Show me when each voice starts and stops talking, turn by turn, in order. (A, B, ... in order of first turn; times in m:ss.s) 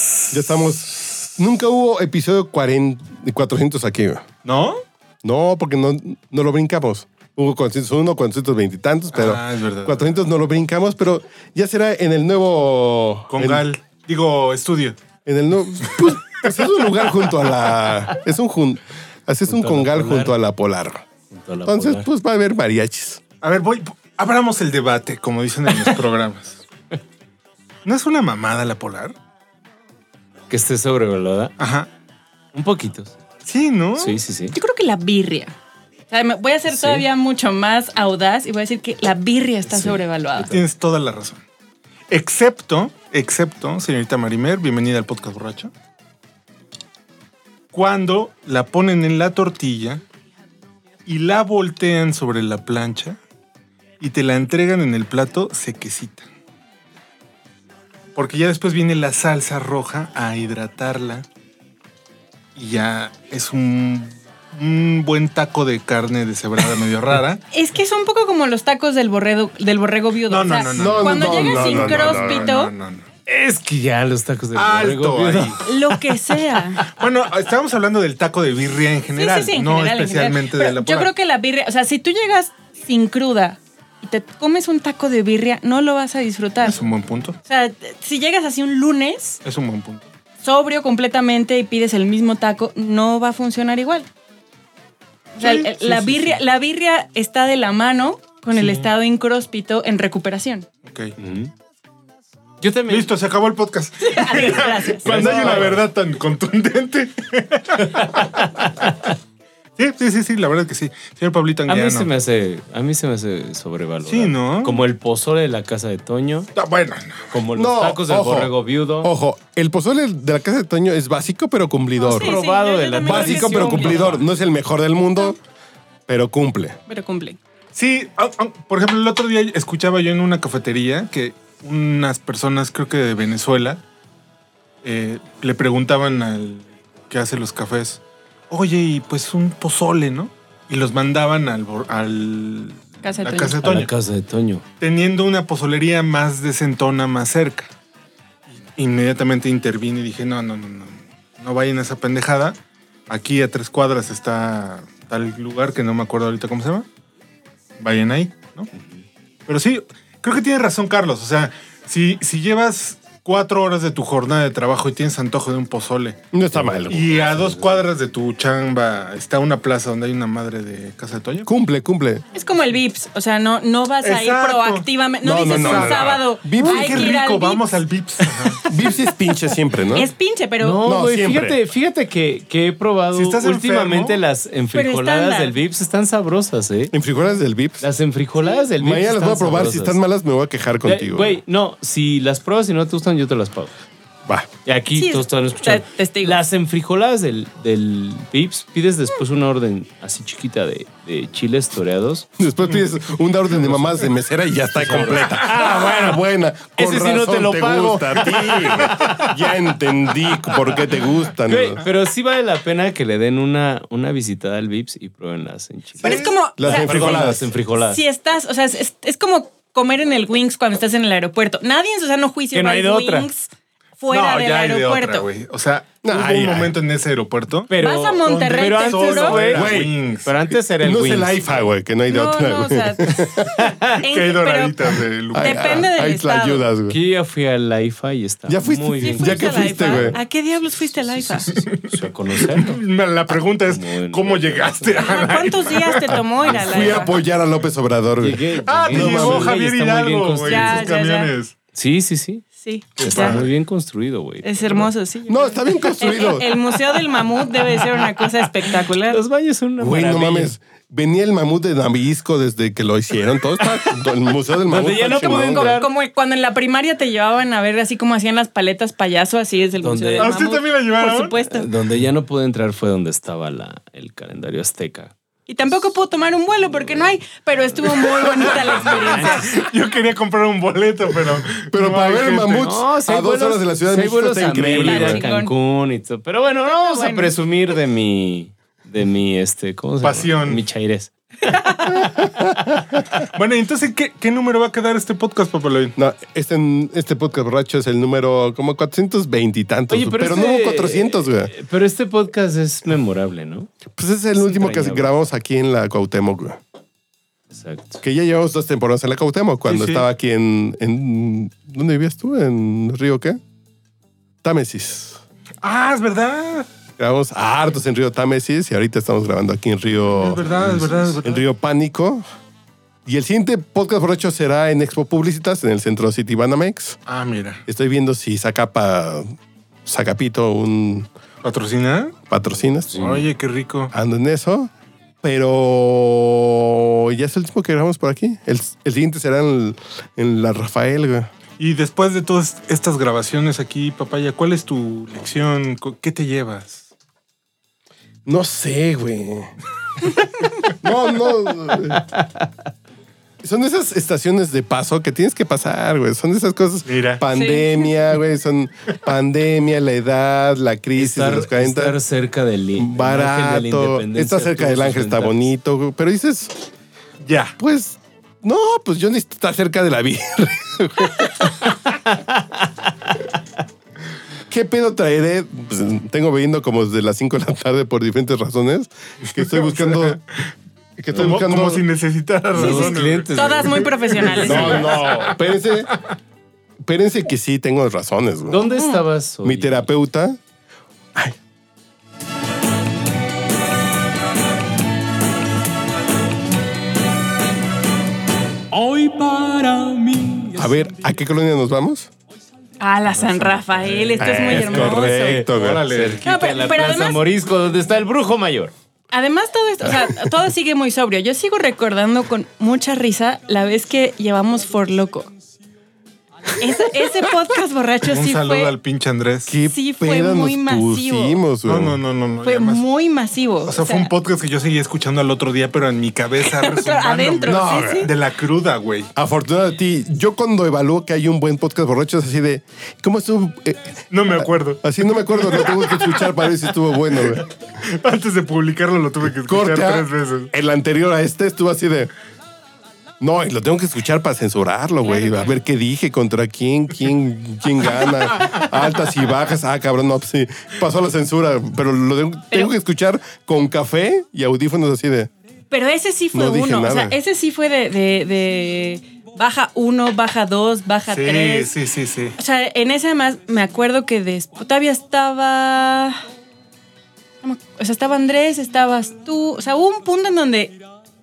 0:00.3-0:04.2 A
0:04.4-0:04.8 B
0:05.2-0:13.7 A
0:09.1-0:10.1 B
0:13.3-0:15.0 B
0:15.3-0:21.0 A
0:19.5-0:20.4 C
0:21.3-0:22.1 C
0:21.6-0:23.2 A
0:23.4-0:26.6 B
0:27.8-0:29.2 B
0:30.5-0:31.5 C
0:31.6-0:31.9 B
0:32.5-0:33.2 C
0:33.5-0:34.2 B
0:34.0-0:34.6 C
0:34.5-0:35.5 D
0:36.1-0:40.5 D
0:36.7-0:37.1 C
0:39.7-0:40.6 C
0:40.5-0:41.4 B
0:42.1-0:45.7 B
0:47.7-0:50.0 B
0:51.1-0:53.2 B
0:54.0-0:56.3 B
0:58.2-1:01.2 B
1:02.6-1:07.4 B
1:07.5-1:12.7 D
1:10.3-1:13.1 B
1:10.7-1:12.4 A
1:13.3-1:17.0 C
1:14.6-1:15.6 B
1:15.6-1:16.8 D
1:16.9-1:21.1 B
1:19.1-1:26.8 D
1:26.6-1:27.4 B
1:27.5-1:29.4 D
1:29.4-1:30.0 B
1:30.4-1:34.1 D
1:35.4-1:36.4 B
1:35.4-1:40.7 D
1:38.5-1:38.9 B
1:40.8-1:41.1 B
1:41.2-1:41.5 C
1:42.6-1:43.2 C
1:42.9-1:48.6 B
1:44.0-1:45.7 D
1:45.0-1:45.8 C
1:49.8-1:52.1 B
1:51.7-1:56.5 C
1:54.0-1:54.8 B
1:56.6-1:57.2 B
1:57.3-1:59.1 C
1:57.5-2:02.4 A
2:02.0-2:04.2 D
2:02.1-2:04.3 C
2:03.0-2:05.4 A
2:06.1-2:06.8 A
2:06.9-2:07.4 D
2:07.7-2:13.8 B
2:14.8-2:23.9 B
2:23.0-2:23.6 D
2:23.6-2:24.6 C
2:24.8-2:27.7 B
2:28.5-2:32.6 B
2:33.1-2:36.9 B
2:37.8-2:38.7 B
2:39.5-2:46.2 B
2:46.3-2:47.2 A
2:46.5-2:47.8 C
2:46.9-2:51.5 B
2:51.5-2:52.2 A
2:52.3-2:58.6 D
2:54.0-2:54.9 B
2:55.2-2:57.2 A
2:55.4-2:58.9 B
2:58.7-3:00.1 A
2:59.9-3:00.8 D
3:00.6-3:06.9 C
3:00.8-3:01.6 A
3:03.1-3:04.2 B
3:04.7-3:05.5 D
3:06.9-3:07.8 A
3:07.8-3:10.0 C
3:08.8-3:11.4 A
3:10.8-3:13.8 C
3:14.6-3:22.3 C
3:15.0-3:16.4 D
3:22.4-3:31.8 A
3:23.7-3:24.0 C
3:24.8-3:26.2 C
3:26.8-3:29.1 C
3:28.3-3:29.3 B
3:31.4-3:38.0 C
3:36.0-3:36.4 B
3:36.0-3:45.3 D
3:36.6-3:37.5 A
3:42.5-3:43.3 C
3:44.1-3:47.7 B
3:46.0-3:46.8 A
3:47.7-3:51.6 C
3:47.8-3:49.4 D
3:48.2-3:50.3 B
3:49.5-3:49.9 A
3:50.8-3:53.5 A
3:52.1-3:53.3 D
3:53.4-3:54.0 C
3:54.0-3:54.8 D
3:54.0-3:55.9 B
3:55.3-3:57.0 A
3:55.4-3:56.6 D
3:56.9-4:00.2 C
3:58.5-4:00.2 A
3:59.0-4:01.6 D
4:01.1-4:02.8 C
4:01.5-4:06.2 B
4:03.6-4:07.1 C
4:05.0-4:07.2 D
4:06.5-4:09.6 A
4:08.2-4:10.9 C
4:08.6-4:11.6 B
4:10.4-4:11.3 D
4:11.7-4:12.5 C
4:12.6-4:13.4 D
4:13.0-4:13.5 B
4:13.0-4:14.9 C
4:14.4-4:19.2 D
4:15.3-4:16.8 A
4:17.7-4:20.5 C
4:19.8-4:25.8 A
4:23.6-4:25.9 C
4:25.1-4:31.7 D
4:29.8-4:30.3 C
4:30.2-4:31.3 B
4:31.5-4:35.1 C
4:35.5-4:39.6 D
4:38.2-4:42.7 B
4:38.4-4:39.7 C
4:41.5-4:45.2 A
4:42.6-4:52.8 C
4:44.7-4:45.5 D
4:46.6-4:47.4 D
4:50.0-4:50.6 B
4:51.4-4:51.9 D
4:51.9-4:52.8 A
4:53.3-4:56.0 B
4:56.0-5:01.5 A
4:59.9-5:03.7 C
5:04.0-5:06.6 A
5:04.4-5:05.2 C
5:07.5-5:08.0 C
5:08.0-5:13.4 A
5:09.7-5:10.1 B
5:14.4-5:15.2 A
5:15.6-5:16.7 B
5:17.0-5:20.6 A
5:20.1-5:21.4 B
5:21.2-5:22.2 A
5:23.1-5:27.0 A
5:27.1-5:27.6 B
5:27.7-5:29.3 A
5:29.9-5:31.1 A
5:31.4-5:32.2 B
5:32.3-5:33.1 A
5:32.9-5:33.2 C
5:33.0-5:33.9 B
5:33.9-5:34.7 A
5:35.2-5:41.3 A
5:41.6-5:46.8 B
5:48.3-5:49.5 A
5:50.8-5:52.0 A
5:51.9-5:52.4 C
5:53.4-6:02.0 A
5:56.9-5:57.2 B
5:57.3-5:58.1 D
6:01.0-6:05.5 C
6:02.8-6:06.7 A
6:07.2-6:07.6 B
6:07.6-6:11.7 A
6:11.6-6:13.2 C
6:14.5-6:20.2 A
6:19.4-6:20.2 B
6:21.0-6:21.8 A
6:21.1-6:25.5 B
6:22.5-6:24.8 C
6:22.6-6:25.0 D
6:24.4-6:26.0 A
6:26.9-6:28.7 A
6:28.5-6:29.9 C
6:28.7-6:29.0 D
6:29.4-6:30.4 A
6:38.7-6:40.9 C
6:40.6-6:42.1 A
6:42.8-6:45.4 D
6:44.2-6:45.8 A
6:44.2-6:48.7 C
6:45.4-6:46.2 B
6:46.2-6:47.2 D
6:49.1-6:55.3 D
6:49.9-6:50.1 A
6:56.6-6:58.7 D
6:58.0-6:59.6 B
6:59.5-7:02.0 A
6:59.7-7:01.4 D
7:01.6-7:02.8 B
7:02.4-7:04.1 D
7:03.7-7:09.1 B
7:06.4-7:08.1 D
7:07.4-7:08.1 A
7:09.2-7:17.5 A
7:14.1-7:16.5 B
7:17.1-7:20.5 B
7:19.4-7:22.1 A
7:23.2-7:35.3 A
7:28.3-7:28.6 B
7:35.7-7:41.7 D
7:36.3-7:37.2 A
7:41.1-7:42.4 B
7:42.4-7:46.2 D
7:47.4-7:50.8 D